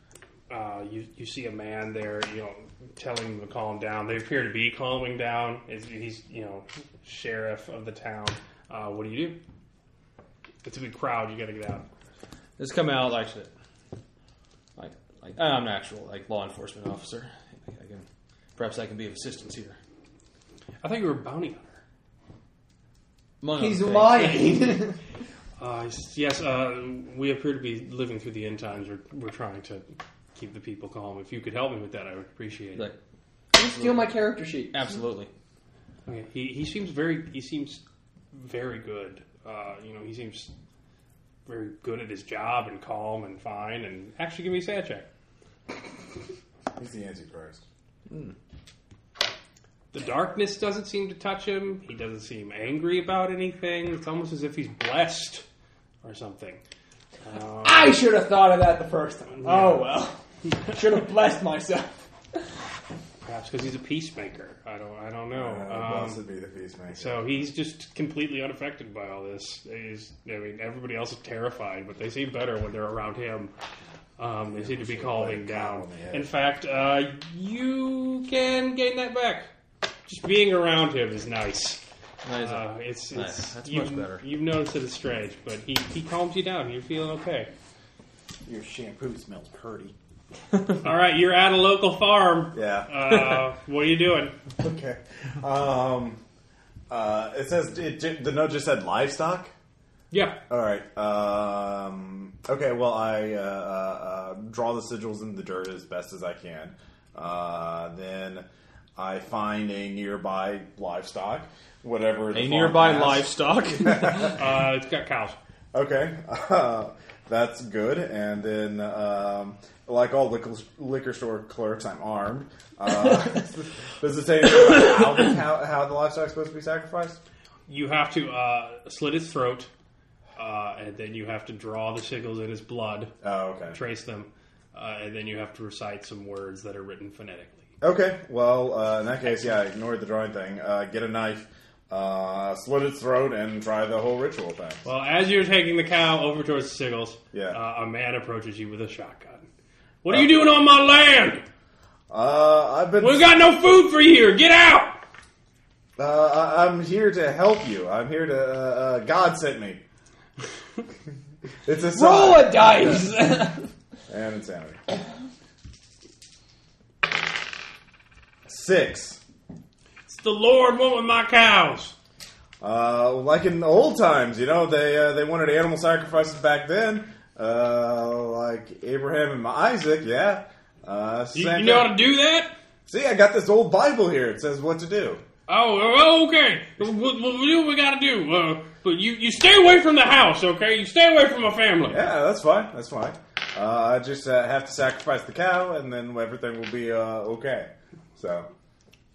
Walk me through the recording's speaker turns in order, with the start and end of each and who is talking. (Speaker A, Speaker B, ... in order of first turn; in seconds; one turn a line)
Speaker A: 0.5-9.4
Speaker A: 10.7-11.9
Speaker B: 12.6-13.5
Speaker B: 14.8-18.1
Speaker B: 18.6-19.8
Speaker A: 20.8-21.7
Speaker B: 23.4-24.6
Speaker C: 23.6-25.0
Speaker A: 25.6-32.9
Speaker C: 33.5-34.8
Speaker B: 33.6-34.2
Speaker B: 34.7-35.3
Speaker A: 36.1-37.8
Speaker A: 38.3-40.5
Speaker A: 41.5-45.1
Speaker D: 46.8-47.6
Speaker A: 49.9-55.5
Speaker A: 56.0-56.6
Speaker A: 57.2-58.0
Speaker C: 57.6-62.0
Speaker A: 59.3-59.9
Speaker A: 63.2-66.2
Speaker D: 65.3-67.3
Speaker A: 66.9-73.5
Speaker A: 74.2-79.5
Speaker D: 74.5-76.3
Speaker A: 80.1-81.8
Speaker B: 82.2-84.2
Speaker A: 82.4-87.5
Speaker D: 88.5-89.9
Speaker A: 90.8-94.3
Speaker D: 92.5-92.9
Speaker D: 94.6-96.2
Speaker D: 96.9-99.5
Speaker A: 100.1-100.4
Speaker D: 100.5-108.5
Speaker D: 109.0-114.3
Speaker B: 112.3-114.3
Speaker A: 114.2-115.4
Speaker D: 115.7-127.2
Speaker A: 127.7-129.7
Speaker A: 130.4-133.1
Speaker D: 133.2-133.8
Speaker A: 133.7-137.6
Speaker D: 137.8-144.8
Speaker A: 144.8-149.5
Speaker D: 147.3-147.6
Speaker A: 150.0-151.4
Speaker D: 152.1-153.3
Speaker A: 153.0-155.0
Speaker D: 156.0-159.8
Speaker D: 161.7-163.1
Speaker C: 161.9-163.7
Speaker D: 164.1-164.8
Speaker D: 168.5-169.2
Speaker A: 170.1-171.9
Speaker D: 172.6-182.0
Speaker A: 181.3-182.6
Speaker D: 182.9-185.2
Speaker A: 185.5-192.0
Speaker D: 191.9-198.5